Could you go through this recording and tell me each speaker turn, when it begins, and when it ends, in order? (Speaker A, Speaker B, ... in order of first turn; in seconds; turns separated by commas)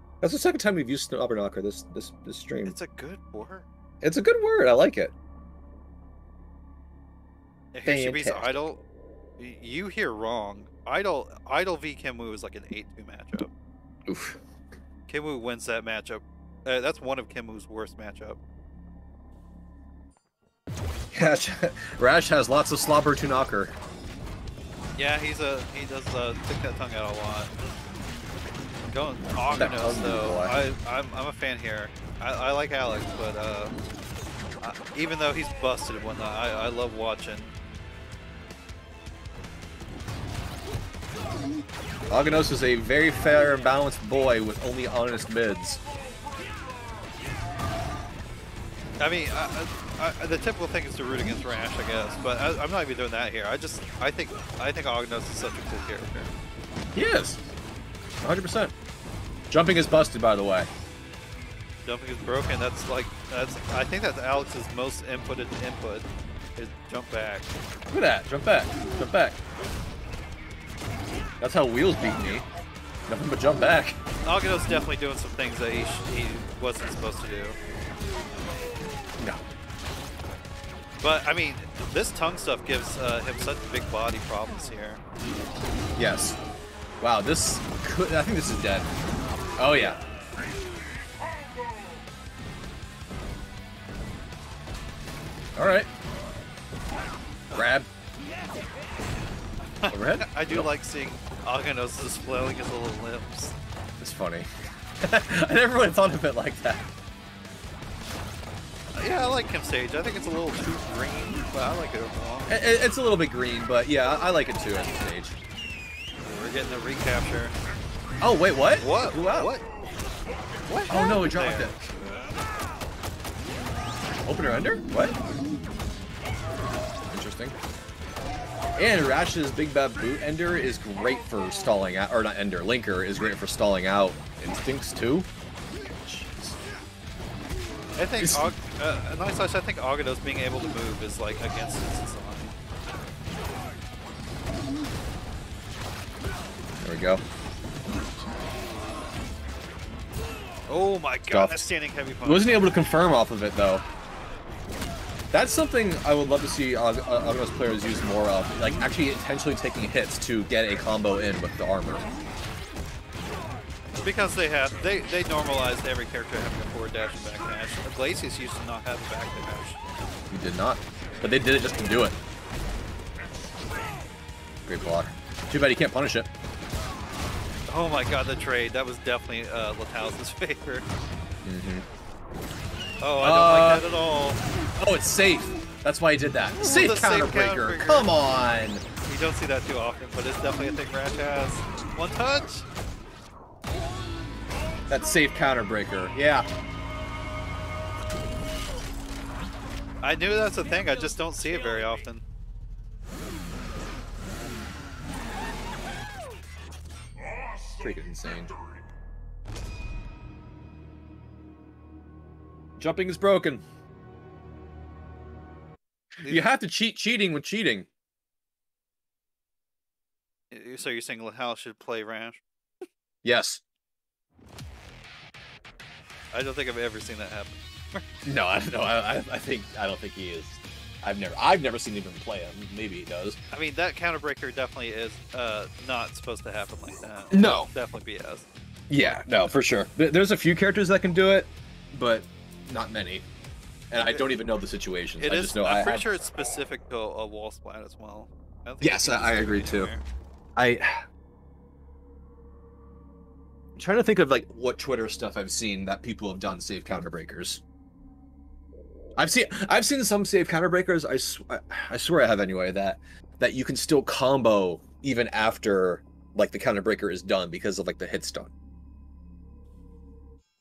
Speaker A: 0.2-2.8, Speaker B: 2.6-3.7, Speaker A: 4.0-5.1, Speaker B: 7.7-8.8, Speaker A: 7.8-8.7, Speaker B: 9.4-13.5, Speaker A: 14.1-14.4, Speaker B: 15.1-18.4, Speaker A: 21.1-23.7, Speaker B: 24.9-27.7, Speaker B: 28.9-33.8, Speaker A: 29.5-30.6, Speaker B: 34.6-37.5, Speaker A: 42.1-45.8, Speaker B: 49.0-56.3, Speaker A: 56.9-57.4, Speaker A: 58.2-58.7, Speaker A: 59.5-60.7, Speaker B: 61.8-66.0, Speaker B: 66.6-67.5, Speaker A: 67.9-69.4, Speaker A: 71.4-72.5, Speaker A: 73.1-74.0, Speaker B: 74.2-77.6, Speaker B: 81.0-85.0, Speaker A: 86.0-86.4, Speaker A: 87.0-88.9, Speaker A: 89.6-90.0, Speaker A: 95.5-95.9, Speaker A: 97.5-97.9, Speaker B: 99.8-103.5, Speaker A: 99.9-100.7, Speaker A: 104.0-104.5, Speaker A: 105.0-106.8, Speaker B: 108.9-112.5, Speaker A: 112.5-115.3, Speaker B: 116.2-117.5, Speaker A: 118.2-119.5, Speaker B: 118.8-119.6, Speaker B: 120.7-121.8, Speaker A: 120.9-121.8, Speaker A: 124.2-125.2, Speaker A: 127.1-127.5, Speaker A: 128.8-135.3, Speaker A: 135.9-136.6, Speaker B: 137.9-142.5, Speaker A: 138.2-138.4, Speaker A: 146.8-147.2, Speaker B: 150.7-152.7, Speaker A: 151.3-151.7, Speaker A: 152.2-153.8, Speaker A: 155.3-162.0, Speaker B: 164.0-169.8, Speaker A: 170.3-172.2, Speaker A: 174.7-176.3, Speaker B: 177.7-180.8, Speaker A: 181.4-181.8, Speaker B: 183.0-184.4, Speaker A: 183.2-183.8, Speaker A: 184.8-188.8, Speaker B: 186.6-188.1, Speaker B: 189.0-192.7, Speaker A: 194.9-196.5, Speaker B: 200.0-202.2, Speaker A: 207.8-208.5, Speaker A: 212.8-213.6, Speaker A: 216.2-217.9, Speaker B: 216.2-216.5, Speaker B: 220.5-222.4, Speaker A: 223.2-223.6, Speaker B: 226.3-228.0, Speaker A: 228.2-233.4, Speaker B: 233.5-238.5, Speaker A: 237.3-237.7, Speaker A: 238.9-243.2, Speaker B: 239.0-239.6, Speaker A: 243.9-246.2, Speaker B: 244.0-244.3, Speaker B: 245.2-250.0, Speaker A: 248.8-249.9, Speaker A: 250.6-251.0, Speaker A: 253.8-257.6, Speaker A: 259.1-268.5